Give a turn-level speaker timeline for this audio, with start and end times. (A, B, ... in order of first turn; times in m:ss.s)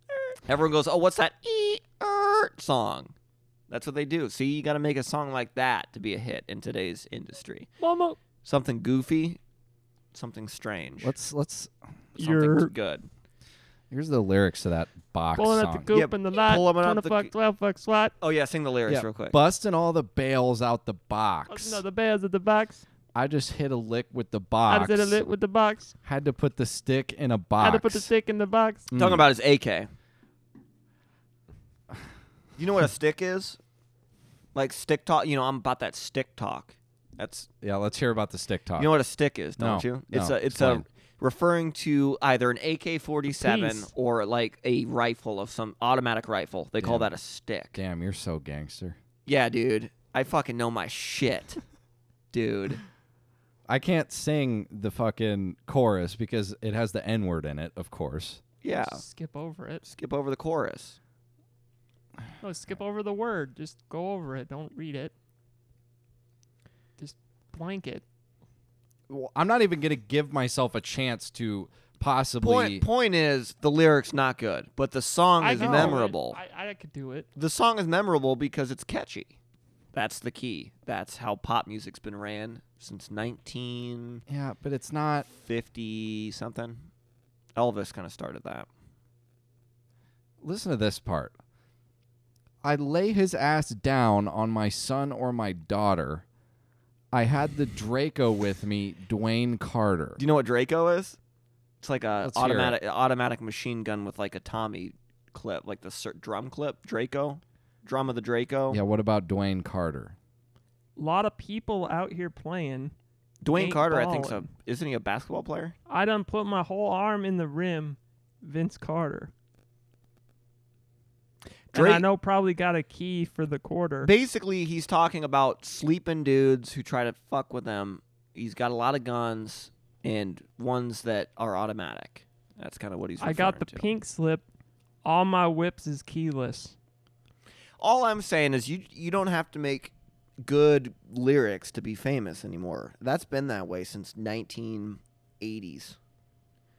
0:00.4-0:03.1 A
0:03.7-0:07.7 A
0:07.8-0:08.2 B
0:08.4-0:09.4 A
0:10.1-0:11.1 A
0:11.0-0:11.7 C
0:12.2-0:12.7 B
0:12.2-0:13.1 A
0:13.9-0:15.9 C
0:15.4-0:18.1 B
0:15.9-0:17.3 A
0:18.2-0:19.4 A
0:18.9-0:21.8 C
0:21.5-0:22.8 B
0:23.1-0:25.2 C
0:24.7-0:26.0 B
0:26.0-0:28.1 C
0:27.6-0:28.9 B
0:28.9-0:29.3 C
0:28.9-0:29.9 A
0:32.6-0:33.6 A
0:34.5-0:37.5 A
0:37.6-0:38.9 C
0:38.8-0:47.8 A
0:39.6-0:40.8 C
0:43.3-0:43.9 B
0:46.8-0:47.1 C
0:47.7-0:49.0 C
0:49.2-0:51.6 A
0:52.3-0:52.8 A
0:53.7-0:58.4 C
0:58.6-0:59.0 A
0:58.8-0:59.8 B
0:59.8-1:01.0 A
1:02.4-1:05.1 B
1:07.0-1:08.0 B
1:09.1-1:12.8 C
1:12.4-1:16.4 A
1:15.4-1:17.3 B
1:15.6-1:16.0 C
1:17.4-1:19.4 A
1:19.9-1:24.2 A
1:24.3-1:25.3 C
1:25.3-1:26.9 A
1:27.6-1:28.7 A
1:30.4-1:31.3 C
1:32.6-1:36.2 C
1:37.1-1:40.2 C
1:40.2-1:41.2 A
1:41.8-1:48.8 A
1:42.2-1:42.8 C
1:48.7-1:50.2 C
1:51.0-1:52.9 B
1:53.4-1:55.7 A
1:53.5-1:54.4 B
1:55.9-1:59.3 B
2:01.7-2:02.1 A
2:01.7-2:04.1 B
2:04.0-2:13.9 A
2:13.2-2:14.4 B
2:15.0-2:16.7 B
2:17.8-2:26.0 A